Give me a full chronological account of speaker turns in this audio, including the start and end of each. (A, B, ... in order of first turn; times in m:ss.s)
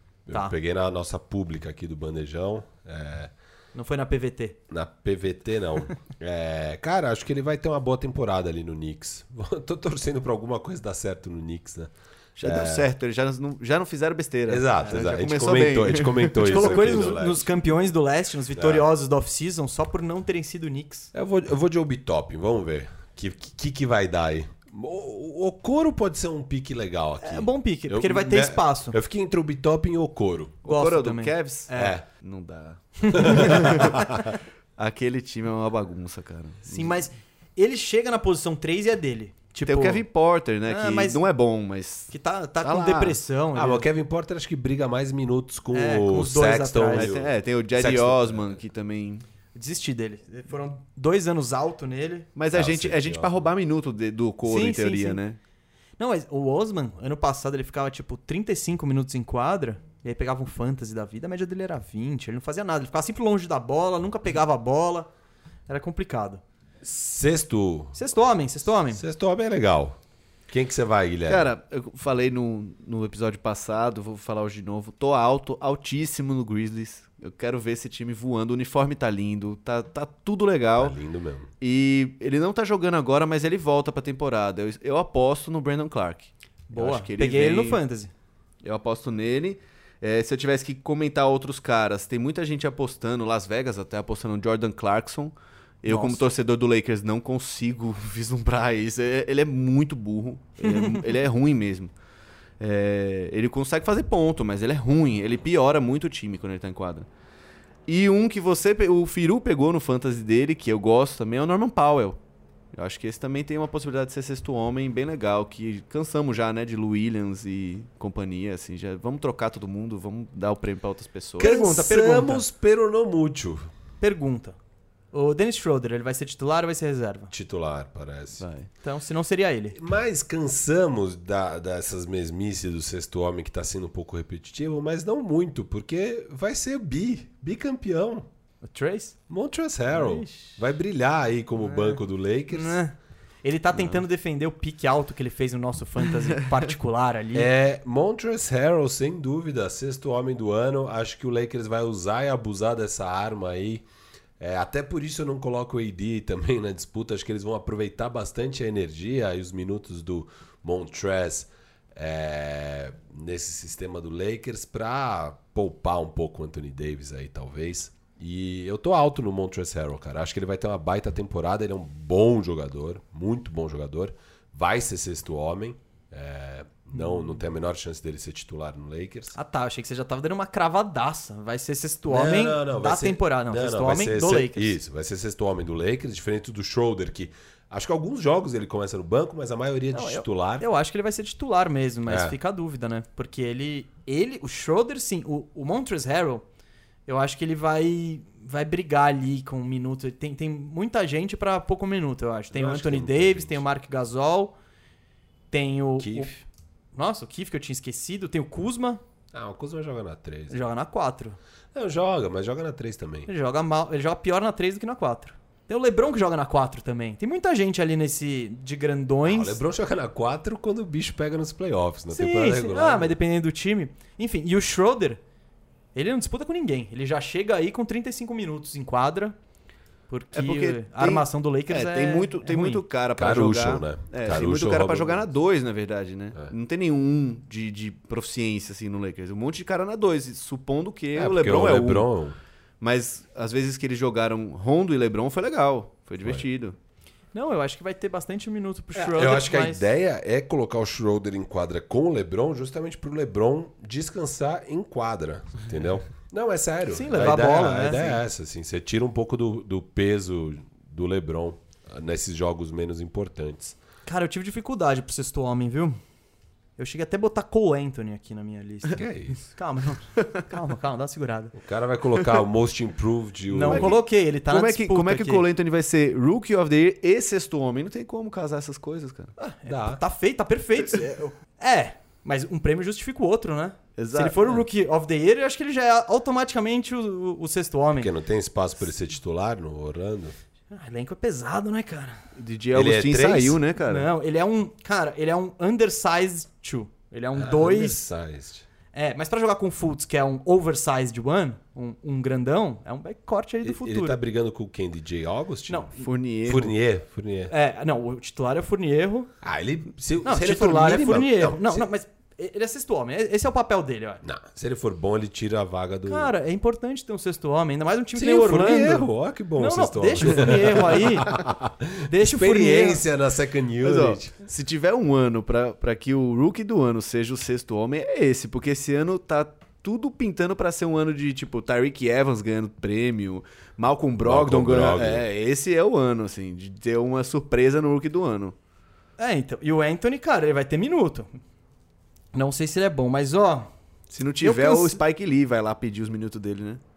0:00.3-0:03.3 A
0:03.8-0:04.6 B
0:04.7-0:12.9 A
0:12.4-0:16.8 C
0:14.5-0:17.5 A
0:16.4-0:21.1 B
0:18.6-0:18.9 A
0:21.1-0:30.6 A
0:27.2-0:29.0 B
0:30.6-0:34.1 C
0:30.7-0:32.0 B
0:31.7-0:32.0 A
0:33.0-0:33.8 B
0:33.1-0:34.3 A
0:34.8-0:37.0 C
0:36.7-0:40.0 B
0:39.7-0:43.2 C
0:40.7-0:41.2 B
0:42.1-0:43.9 B
0:43.6-0:48.6 A
0:45.7-0:47.1 B
0:46.9-0:49.2 C
0:49.6-0:52.3 B
0:52.4-0:55.4 C
0:52.5-0:53.3 A
0:54.5-0:55.2 B
0:56.0-1:05.1 B
1:05.7-1:06.4 B
1:06.8-1:08.0 A
1:08.0-1:09.0 B
1:08.8-1:10.0 A
1:10.5-1:11.5 A
1:11.3-1:21.0 C
1:20.8-1:21.5 A
1:21.6-1:27.8 C
1:26.7-1:28.1 B
1:28.6-1:41.9 C
1:35.9-1:36.2 B
1:40.7-1:41.0 B
1:42.6-1:47.1 C
1:47.9-1:52.2 C
1:52.7-2:01.5 C
2:01.4-2:02.4 B
2:01.4-2:03.7 A
2:04.0-2:04.6 B
2:05.1-2:07.3 B
2:07.3-2:08.4 A
2:08.4-2:08.7 C
2:08.8-2:09.8 B
2:09.7-2:18.3 A
2:18.6-2:19.2 B
2:19.3-2:22.8 A
2:19.9-2:20.6 B
2:21.6-2:22.0 B
2:22.5-2:27.5 B
2:27.3-2:33.9 A
2:34.4-2:59.4 A
2:57.0-2:57.4 B
2:59.4-3:04.8 B
3:02.1-3:10.6 A
3:09.9-3:16.4 B
3:12.1-3:12.4 A
3:17.1-3:24.6 B
3:22.5-3:23.6 A
3:25.5-3:26.4 B
3:26.0-3:26.3 A
3:26.9-3:29.0 B
3:29.3-3:30.6 A
3:30.5-3:31.4 B
3:31.7-3:33.3 A
3:33.3-3:39.6 B
3:39.2-3:43.2 A
3:42.1-3:45.2 B
3:46.0-3:49.4 B
3:50.1-3:52.8 B
3:50.3-4:02.1 C
3:53.2-3:55.3 A
4:01.2-4:02.4 A
4:02.8-4:06.8 C
4:07.3-4:09.8 B
4:09.0-4:23.8 A
4:16.9-4:18.2 B
4:24.1-4:26.0 B
4:26.8-4:31.6 B
4:28.9-4:29.5 A
4:31.5-4:34.0 A
4:33.5-4:35.4 B
4:33.7-4:39.3 C
4:39.4-4:48.1 B
4:39.7-4:40.0 A
4:44.0-4:44.6 C
4:48.0-4:50.4 A
4:50.7-4:52.2 B
4:52.4-4:54.1 C
4:52.7-4:53.6 A
4:53.9-4:58.0 B
4:57.4-4:58.7 A
4:58.9-5:04.2 B
5:03.6-5:05.9 A
5:05.7-5:06.0 B
5:06.0-5:06.7 C
5:06.5-5:07.5 A
5:07.5-5:09.3 B
5:09.4-5:11.9 A
5:10.2-5:14.2 B
5:14.2-5:16.3 A
5:16.1-5:21.4 B
5:18.2-5:24.3 A
5:22.0-5:23.0 B
5:23.8-5:38.6 C
5:34.2-5:35.3 A
5:39.2-5:41.3 B
5:42.3-5:43.7 B
5:44.1-5:46.8 C
5:44.4-5:45.0 B